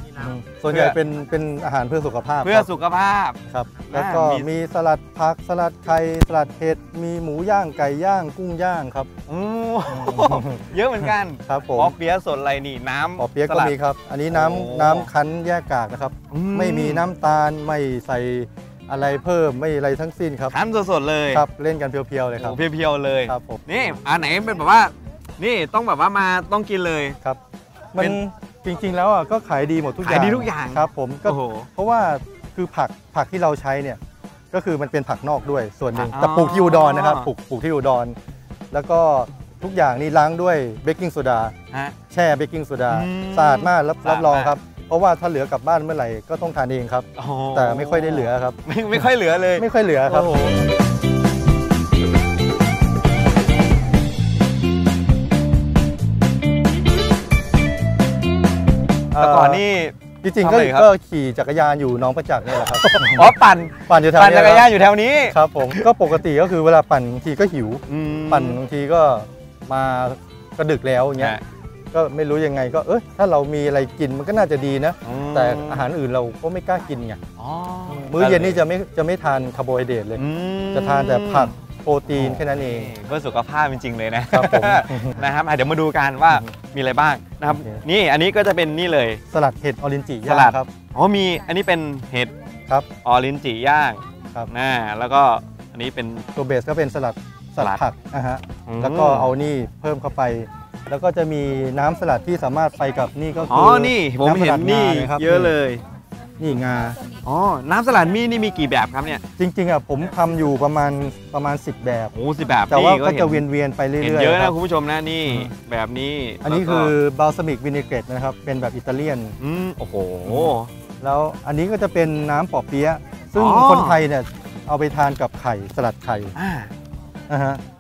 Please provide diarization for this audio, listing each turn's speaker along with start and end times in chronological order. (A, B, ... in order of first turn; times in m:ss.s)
0:00.2-0:02.7 A
0:00.7-0:01.0 B
0:02.4-0:04.5 B
0:03.5-0:09.1 A
0:09.3-0:13.8 B
0:09.9-0:10.6 A
0:11.5-0:11.9 A
0:13.2-0:20.6 A
0:14.3-0:15.1 B
0:16.3-0:17.1 B
0:20.5-0:21.4 B
0:21.3-0:22.6 A
0:22.4-0:27.2 B
0:23.3-0:23.6 A
0:27.9-0:34.0 A
0:30.0-0:31.7 B
0:34.5-0:38.2 A
0:35.9-0:37.3 B
0:38.7-0:41.6 A
0:42.1-0:49.1 A
0:42.9-0:44.6 B
0:47.2-0:50.5 B
0:49.6-0:50.6 A
0:59.1-1:00.9 B
0:59.2-0:59.6 A
1:00.2-1:03.4 A
1:02.8-1:05.9 B
1:03.9-1:04.7 A
1:05.3-1:11.4 A
1:07.9-1:08.6 B
1:11.9-1:17.2 A
1:15.0-1:15.9 B
1:17.4-1:18.6 B
1:17.9-1:22.9 A
1:20.2-1:21.5 B
1:22.1-1:29.2 B
1:24.3-1:25.2 A
1:27.5-1:27.8 A
1:29.3-1:30.7 A
1:30.3-1:32.3 B
1:33.0-1:36.3 B
1:36.4-1:45.6 A
1:38.7-1:39.3 B
1:43.5-1:45.8 B
1:46.4-1:47.0 A
1:47.2-1:49.2 B
1:49.4-1:52.2 A
1:52.1-1:53.4 B
1:52.7-1:54.6 A
1:54.0-1:57.0 B
1:55.3-1:55.5 A
1:56.4-1:59.4 A
1:59.4-2:00.7 B
2:00.3-2:06.4 A
2:03.4-2:04.0 B
2:06.4-2:06.7 B
2:07.3-2:07.6 A